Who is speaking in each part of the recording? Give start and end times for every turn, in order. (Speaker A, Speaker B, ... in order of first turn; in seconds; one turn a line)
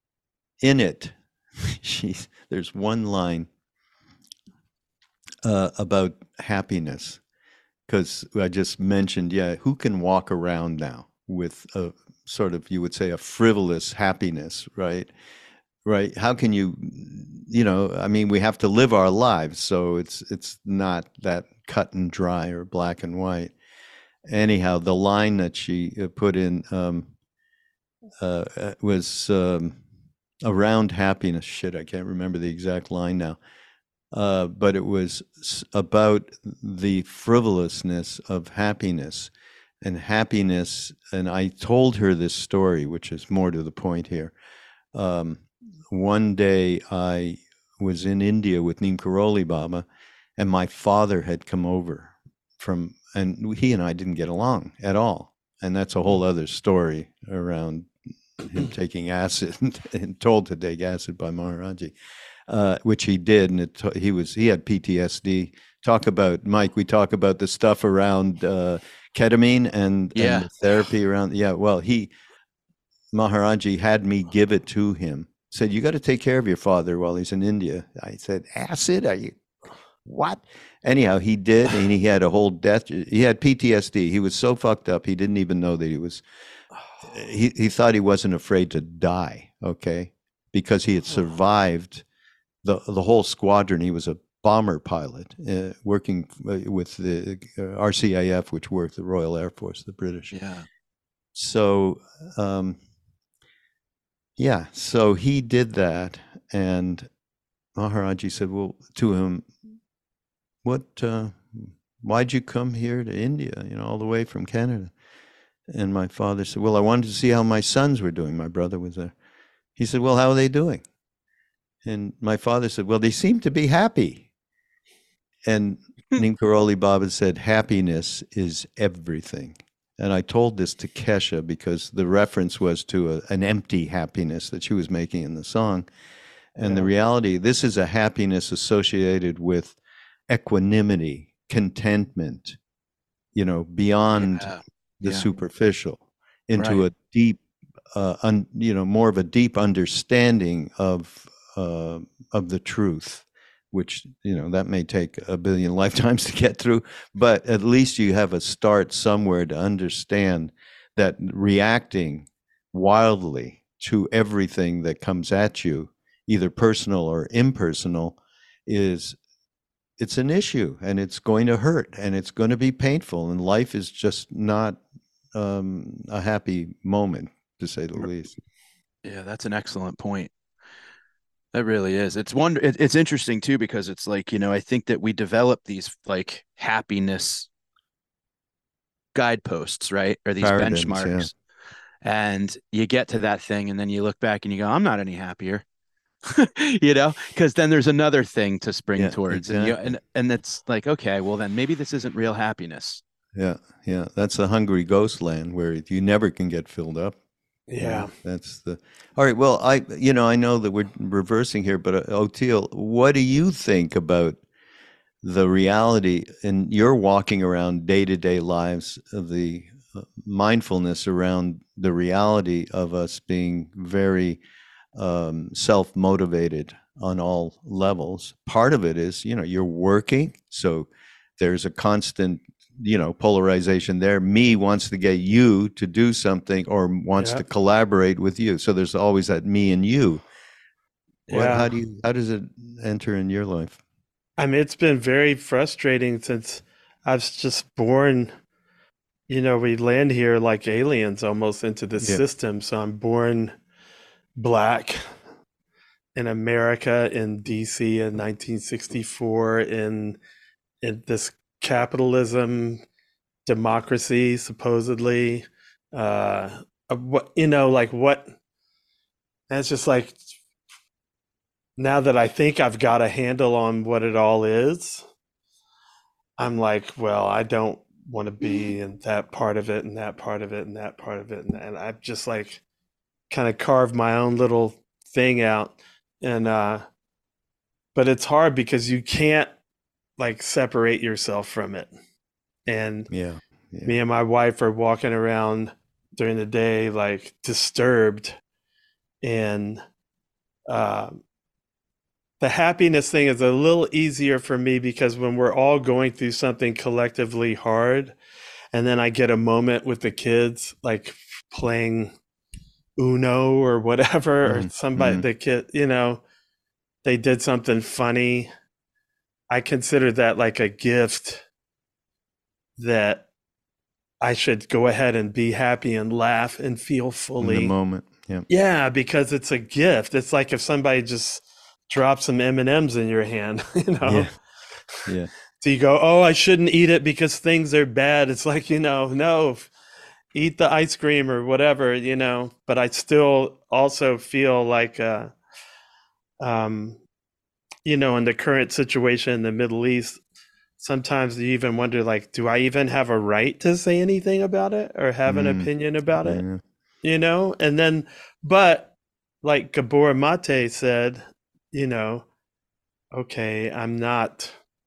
Speaker A: 0.6-3.5
Speaker A: 5.4-7.2
Speaker A: 7.9-15.1
Speaker A: 15.8-23.5
Speaker A: 24.3-27.1
Speaker A: 28.2-29.8
Speaker A: 30.4-33.4
Speaker A: 34.1-39.3
Speaker A: 39.8-44.3
Speaker A: 44.9-49.9
Speaker A: 50.4-57.9
Speaker A: 58.5-61.9
Speaker A: 62.5-72.1
Speaker B: 70.1-70.5
Speaker A: 73.1-79.4
Speaker A: 80.0-86.2
Speaker A: 87.0-92.0
Speaker A: 92.6-100.3
Speaker B: 100.3-100.7
Speaker A: 101.3-102.8
Speaker A: 104.4-107.1
Speaker A: 107.8-109.6
Speaker A: 110.6-114.9
Speaker A: 115.7-119.1
Speaker A: 119.8-120.8
Speaker A: 121.8-124.3
Speaker A: 125.5-135.9
Speaker A: 136.6-139.8
Speaker A: 140.3-142.6
Speaker A: 143.3-147.4
Speaker B: 144.2-145.2
Speaker B: 146.6-146.8
Speaker A: 147.9-169.2
Speaker A: 170.0-174.8
Speaker A: 175.3-178.3
Speaker B: 179.0-180.3
Speaker B: 181.5-187.5
Speaker B: 189.1-191.3
Speaker A: 190.4-191.3
Speaker B: 192.0-195.6
Speaker B: 196.2-203.0
Speaker A: 199.0-200.0
Speaker A: 203.3-207.2
Speaker C: 207.7-208.1
Speaker A: 207.8-214.4
Speaker A: 215.2-224.4
Speaker A: 224.9-240.2
Speaker C: 237.2-237.4
Speaker A: 241.3-243.8
Speaker C: 241.3-241.7
Speaker C: 244.4-248.3
Speaker C: 249.3-253.6
Speaker C: 254.4-255.1
Speaker C: 256.1-260.2
Speaker C: 260.8-262.8
Speaker C: 263.5-268.3
Speaker C: 269.5-270.2
Speaker C: 271.8-275.0
Speaker C: 276.4-282.6
Speaker C: 283.3-286.9
Speaker C: 287.9-289.5
Speaker C: 290.2-291.9
Speaker C: 292.7-293.1
Speaker A: 293.1-293.9
Speaker C: 293.9-298.4
Speaker C: 299.2-299.8
Speaker C: 300.7-301.2
Speaker C: 302.4-308.1
Speaker C: 308.7-312.1
Speaker C: 313.0-316.2
Speaker A: 314.4-315.2
Speaker C: 317.0-318.5
Speaker C: 319.5-321.4
Speaker C: 322.8-323.3
Speaker C: 324.2-327.7
Speaker A: 327.4-328.5
Speaker C: 328.5-334.3
Speaker A: 334.1-334.3
Speaker C: 335.6-339.7
Speaker C: 340.3-345.3
Speaker C: 346.4-347.0
Speaker C: 347.9-350.2
Speaker C: 350.8-356.4
Speaker A: 355.3-356.6
Speaker C: 357.0-362.2
Speaker C: 363.1-364.6